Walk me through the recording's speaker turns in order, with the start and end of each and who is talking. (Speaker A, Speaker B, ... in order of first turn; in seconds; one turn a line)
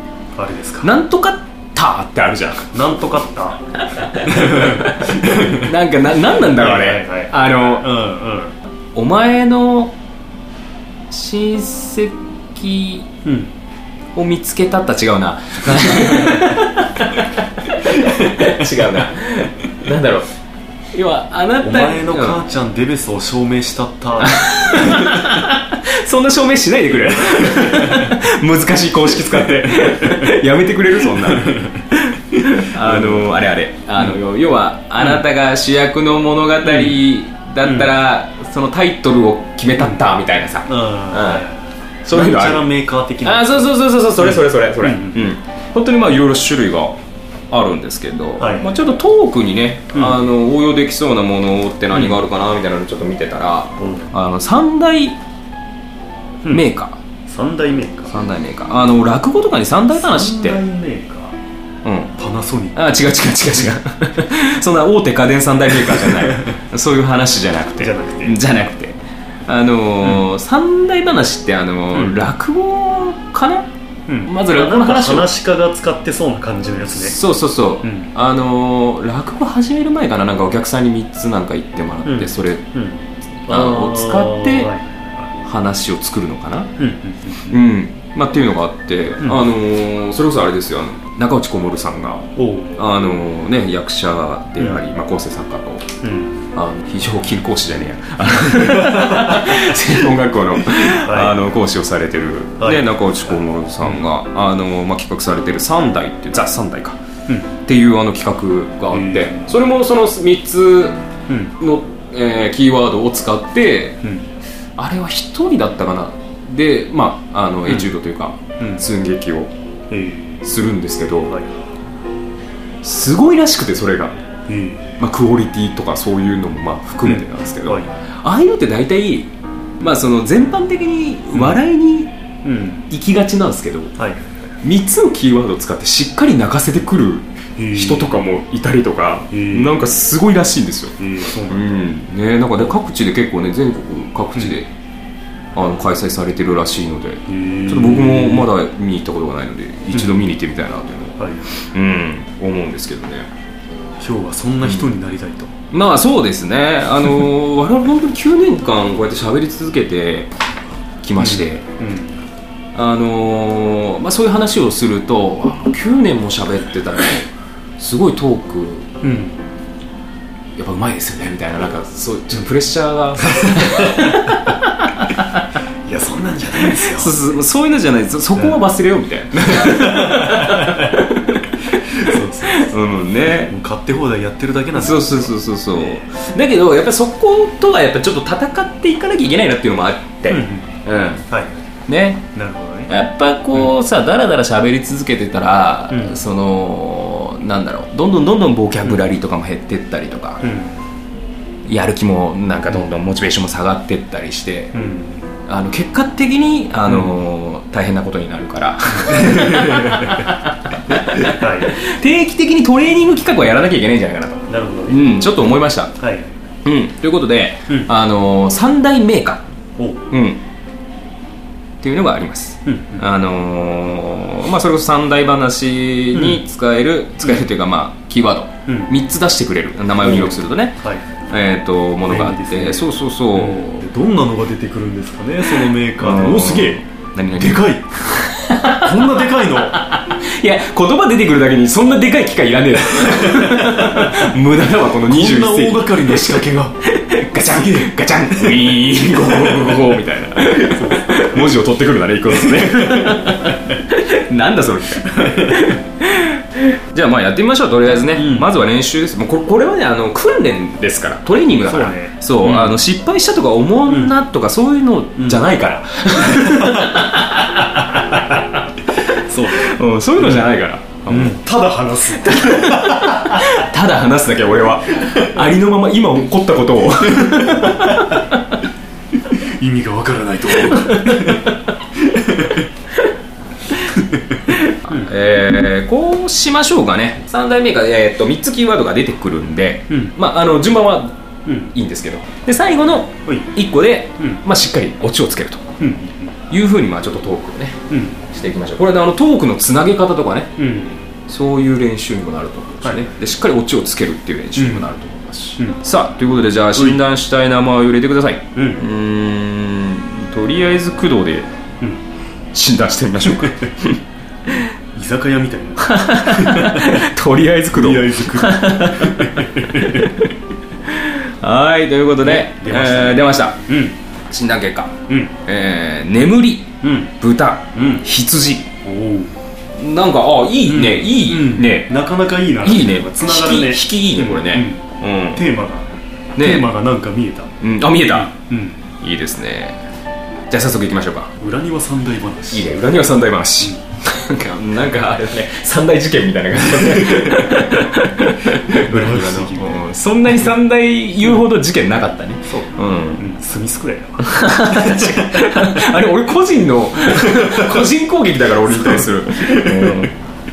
Speaker A: 0.3-0.9
Speaker B: 0.8-2.7
Speaker A: 2.7-8.5
Speaker B: 3.9-7.9
Speaker B: 8.9-9.9
Speaker B: 11.1-13.1
Speaker A: 13.2-13.5
Speaker B: 14.2-20.3
Speaker A: 16.0-16.5
Speaker A: 18.0-18.6
Speaker B: 20.9-22.4
Speaker A: 21.6-25.2
Speaker B: 24.2-41.5
Speaker A: 27.6-28.1
Speaker A: 31.2-31.7
Speaker A: 32.8-33.3
Speaker A: 36.6-37.0
Speaker A: 37.6-37.9
Speaker A: 40.6-45.3
Speaker B: 42.0-42.6
Speaker B: 43.2-47.0
Speaker B: 47.5-55.2
Speaker A: 48.4-48.8
Speaker A: 49.9-50.2
Speaker A: 51.9-52.2
Speaker A: 53.8-54.1
Speaker B: 56.5-57.0
Speaker A: 57.3-58.2
Speaker B: 58.1-60.6
Speaker A: 60.0-61.4
Speaker B: 61.8-62.1
Speaker A: 62.2-62.9
Speaker B: 62.8-73.7
Speaker A: 67.8-68.4
Speaker A: 71.9-72.2
Speaker A: 74.1-77.2
Speaker B: 74.2-75.3
Speaker B: 77.0-82.7
Speaker A: 77.8-78.1
Speaker A: 82.0-85.3
Speaker B: 83.5-84.7
Speaker B: 85.4-86.7
Speaker A: 86.8-87.6
Speaker B: 87.4-95.9
Speaker A: 89.2-89.5
Speaker A: 92.4-92.8
Speaker A: 96.0-96.4
Speaker B: 96.5-107.0
Speaker A: 98.8-99.5
Speaker A: 100.8-101.4
Speaker A: 102.6-104.1
Speaker B: 107.7-111.0
Speaker A: 108.9-109.5
Speaker A: 111.3-111.5
Speaker B: 111.6-114.0
Speaker A: 114.0-114.3
Speaker B: 114.8-119.5
Speaker A: 117.7-117.9
Speaker A: 118.6-118.8
Speaker A: 119.9-120.5
Speaker B: 120.4-121.3
Speaker A: 121.3-121.5
Speaker B: 122.8-124.2
Speaker A: 124.5-124.9
Speaker B: 125.0-132.1
Speaker A: 127.0-127.9
Speaker A: 132.4-132.9
Speaker B: 132.9-133.9
Speaker A: 134.0-134.2
Speaker B: 134.6-144.7
Speaker A: 137.6-138.3
Speaker A: 139.3-139.8
Speaker A: 141.0-141.9
Speaker B: 145.6-153.3
Speaker A: 147.3-148.5
Speaker A: 149.9-150.3
Speaker A: 151.2-151.5
Speaker A: 154.0-155.5
Speaker B: 155.7-160.3
Speaker B: 161.0-161.6
Speaker A: 161.2-162.2
Speaker B: 162.8-167.3
Speaker B: 167.8-168.9
Speaker A: 169.0-169.4
Speaker B: 170.6-175.4
Speaker A: 173.2-174.2
Speaker A: 175.9-177.3
Speaker B: 176.7-183.5
Speaker A: 179.4-181.1
Speaker A: 181.7-182.8
Speaker A: 183.5-186.1
Speaker B: 184.8-191.3
Speaker A: 190.3-190.7
Speaker B: 191.9-192.3
Speaker A: 192.3-192.9
Speaker B: 192.9-200.4
Speaker A: 195.9-196.2
Speaker A: 200.4-200.8
Speaker B: 201.7-204.8
Speaker A: 204.7-205.2
Speaker B: 205.5-215.9
Speaker A: 209.1-210.2
Speaker A: 211.2-211.8
Speaker A: 214.5-215.2
Speaker A: 216.0-216.3
Speaker B: 216.7-219.4
Speaker A: 219.8-220.1
Speaker B: 220.1-220.4
Speaker B: 221.8-233.9
Speaker A: 222.7-223.1
Speaker A: 226.1-226.4
Speaker A: 228.7-228.9
Speaker A: 230.0-231.1
Speaker A: 232.1-239.8
Speaker B: 235.6-237.6
Speaker B: 238.2-271.4
Speaker A: 243.2-244.2
Speaker A: 245.1-246.8
Speaker A: 248.5-249.8
Speaker A: 250.6-251.5
Speaker A: 252.3-253.6
Speaker A: 255.2-255.8
Speaker A: 258.1-258.5
Speaker A: 261.7-262.8
Speaker A: 263.9-264.1
Speaker A: 265.2-265.5
Speaker A: 266.3-267.1
Speaker A: 267.8-268.2
Speaker A: 269.2-270.5
Speaker A: 271.1-273.6
Speaker B: 272.2-278.4
Speaker A: 277.2-278.2
Speaker A: 279.2-282.7
Speaker B: 280.7-281.6
Speaker A: 283.9-284.2
Speaker B: 284.5-291.1
Speaker A: 289.9-290.1
Speaker A: 291.5-291.7
Speaker B: 291.6-295.6
Speaker A: 293.2-293.5
Speaker A: 295.8-296.4
Speaker B: 296.5-297.8
Speaker A: 297.9-298.2
Speaker B: 298.3-300.5
Speaker A: 300.6-301.0
Speaker B: 301.3-311.5
Speaker A: 302.8-303.1
Speaker A: 304.6-304.9
Speaker A: 306.7-307.0
Speaker A: 308.6-308.9
Speaker B: 312.5-314.0
Speaker A: 314.9-317.0
Speaker B: 315.8-320.3
Speaker A: 317.7-320.1
Speaker B: 320.9-323.6
Speaker A: 322.2-324.0
Speaker B: 324.3-324.9
Speaker A: 325.1-325.3
Speaker B: 325.4-328.7
Speaker A: 326.8-327.1
Speaker A: 327.8-328.1
Speaker A: 328.8-329.4
Speaker B: 329.8-331.9
Speaker A: 330.7-338.8
Speaker B: 332.6-335.4
Speaker B: 336.4-336.7
Speaker B: 337.6-338.3
Speaker B: 339.0-339.8
Speaker B: 340.5-341.3
Speaker A: 341.4-342.7
Speaker B: 342.5-353.3
Speaker A: 347.1-347.7
Speaker A: 348.7-349.9
Speaker A: 352.4-355.9
Speaker B: 354.3-360.1
Speaker A: 357.2-357.9
Speaker A: 358.7-360.1